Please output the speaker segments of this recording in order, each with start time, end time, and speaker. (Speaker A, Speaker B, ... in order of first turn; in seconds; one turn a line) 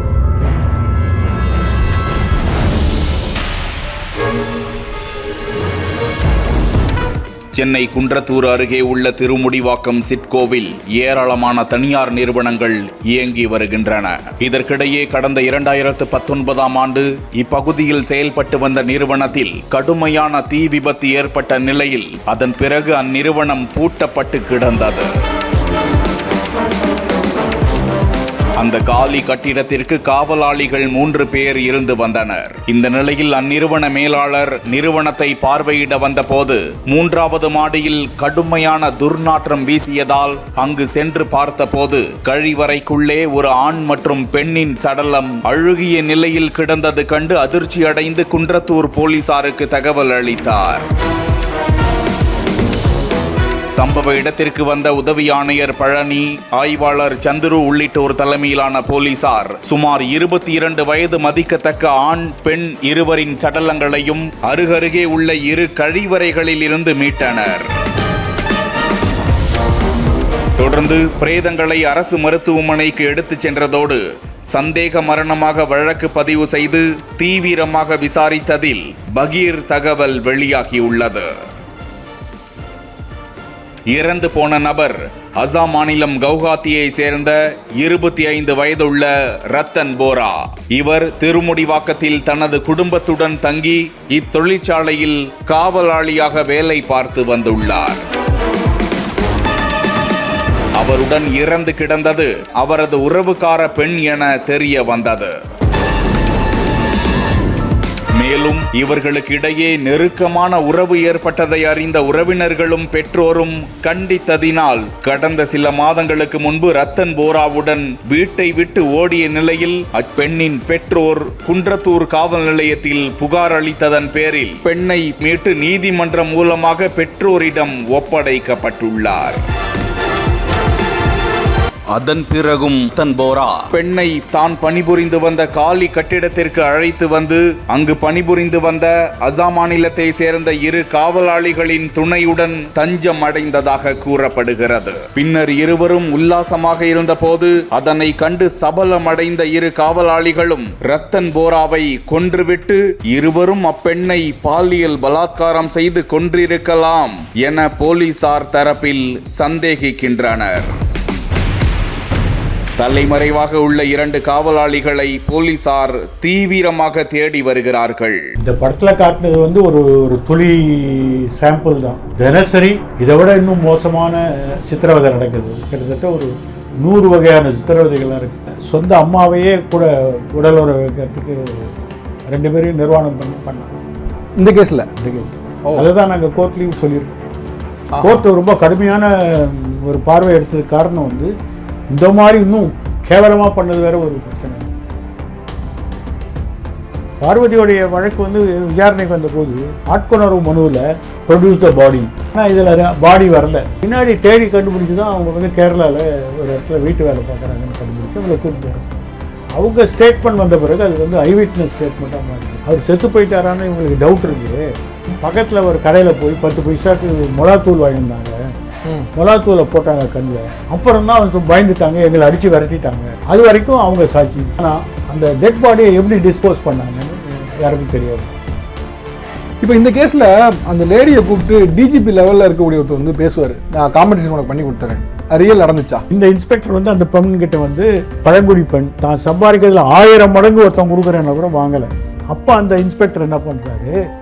Speaker A: 7.5-25.1
Speaker A: 28.6-50.9
Speaker A: 53.7-67.6
Speaker A: 70.6-81.3
Speaker A: 83.9-98.0
Speaker A: 100.8-105.3
Speaker A: 108.2-129.4
Speaker A: 131.9-160.7
Speaker A: 162.8-168.2
Speaker B: 168.4-181.7
Speaker B: 182.3-183.8
Speaker C: 184.4-184.9
Speaker B: 185.0-187.2
Speaker C: 187.9-188.2
Speaker B: 188.0-191.3
Speaker B: 191.9-194.6
Speaker B: 197.2-208.9
Speaker B: 209.6-214.7
Speaker B: 215.2-218.3
Speaker C: 218.8-219.1
Speaker B: 219.1-228.3
Speaker C: 229.6-236.0
Speaker B: 236.1-243.9